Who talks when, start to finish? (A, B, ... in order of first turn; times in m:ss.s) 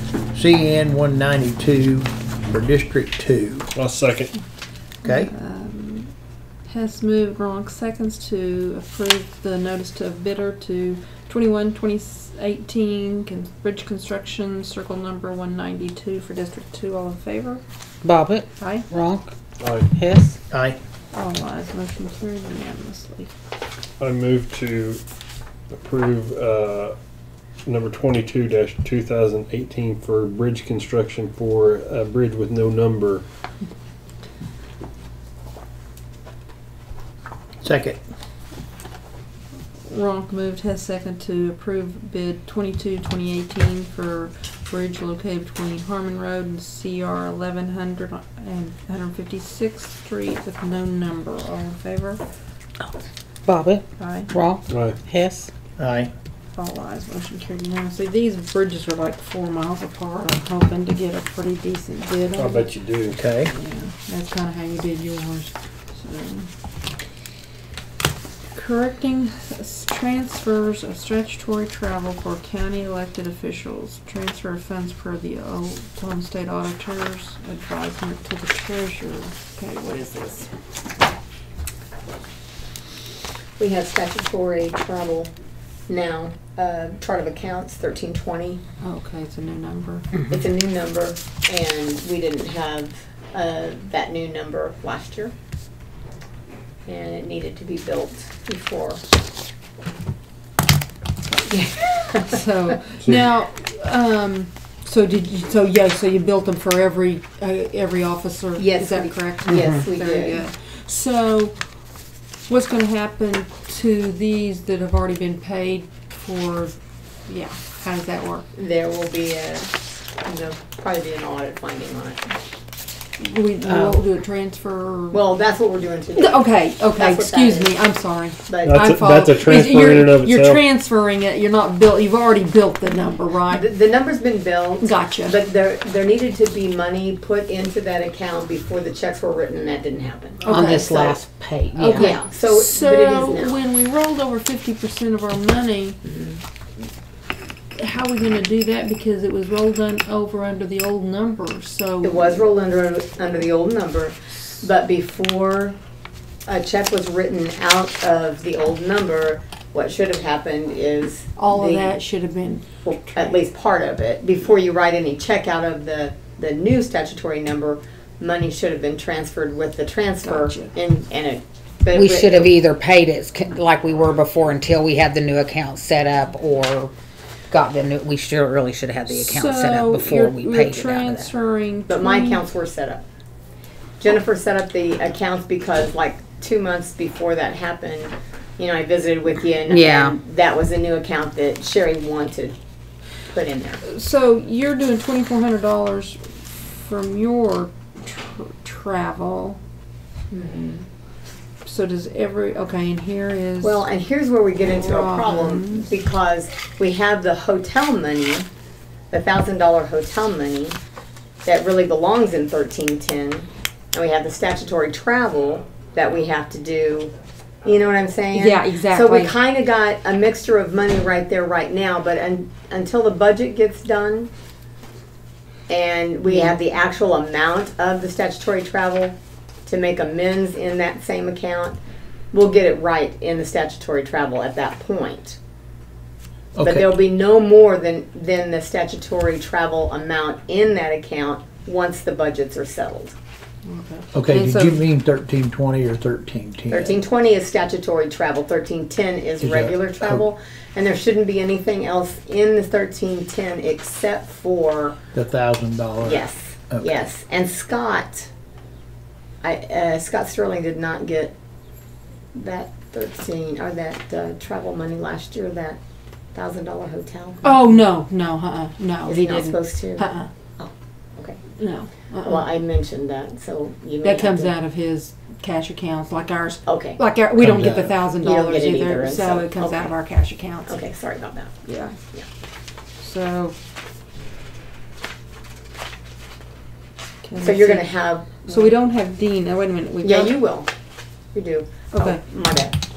0:00.3-0:03.7 A
0:03.8-0:04.3 B
0:05.0-0:05.3 A
0:05.0-0:06.1 C
0:06.7-0:17.6 C
0:18.0-0:19.3 D
0:18.6-0:18.9 C
0:19.6-0:19.9 B
0:19.9-0:20.4 D
0:20.5-0:20.8 A
0:21.1-0:23.3 C
0:24.0-0:25.0 B
0:25.7-0:27.0 B
0:27.6-0:33.2 B
0:37.6-0:38.0 A
0:39.9-0:52.2 C
0:53.5-0:55.5 D
0:54.0-0:54.3 C
0:54.7-0:55.0 B
0:55.8-0:56.1 A
0:56.6-1:02.7 C
1:02.4-1:03.2 B
1:03.1-1:03.5 A
1:03.4-1:06.5 C
1:08.5-1:20.5 C
1:23.6-1:25.3 E
1:25.9-1:28.6 E
1:28.8-1:30.1 C
1:30.3-1:35.3 E
1:36.9-1:39.0 E
1:41.4-1:42.4 E
1:42.1-1:51.6 C
1:48.6-1:50.4 E
1:49.5-1:49.8 D
1:52.5-1:56.8 C
1:57.3-1:58.5 C
1:58.6-1:59.7 E
2:00.2-2:02.3 E
2:03.2-2:05.2 C
2:03.6-2:04.0 D
2:05.1-2:07.8 E
2:06.2-2:13.7 C
2:08.5-2:08.9 E
2:08.6-2:10.6 B
2:13.5-2:21.2 E
2:14.8-2:15.4 C
2:20.4-2:21.2 C
2:20.5-2:22.2 D
2:21.8-2:26.0 C
2:21.9-2:23.6 E
2:26.1-2:26.4 E
2:27.8-2:32.5 C
2:32.0-2:35.8 E
2:36.5-2:42.0 E
2:41.4-2:43.4 C
2:42.8-2:52.5 E
2:50.2-2:50.7 C
2:51.9-2:56.9 D
2:57.5-3:01.3 D
2:59.1-3:02.4 C
3:01.9-3:03.0 E
3:04.0-3:12.6 E
3:09.7-3:10.2 D
3:13.3-3:13.8 E
3:13.8-3:19.6 C
3:20.3-3:20.9 E
3:21.6-3:23.9 C
3:23.6-3:28.5 E
3:24.6-3:25.9 C
3:29.1-3:30.8 E
3:31.4-3:37.1 E
3:37.6-3:44.3 E
3:38.3-3:39.4 C
3:45.7-3:51.8 E
3:46.2-3:46.6 C
3:52.3-3:55.4 E
3:56.6-3:56.8 A
3:56.6-4:03.2 E
4:03.6-4:04.8 C
4:04.1-4:07.0 A
4:06.7-4:15.0 E
4:09.4-4:10.3 A
4:15.1-4:16.9 A
4:16.0-4:18.3 E
4:19.4-4:21.3 E
4:22.4-4:25.8 E
4:26.4-4:27.9 E
4:27.4-4:30.3 C
4:29.1-4:31.4 E
4:31.6-4:32.5 C
4:32.2-4:34.5 E
4:34.0-4:40.8 C
4:36.7-4:37.0 E
4:37.4-4:37.8 B
4:38.2-4:39.9 E
4:40.7-4:41.6 E
4:41.6-4:42.0 C
4:43.0-4:43.6 C
4:47.2-4:50.4 C
4:47.4-4:48.8 E
4:50.0-4:50.7 E
4:51.3-4:52.7 E
4:51.9-4:52.2 C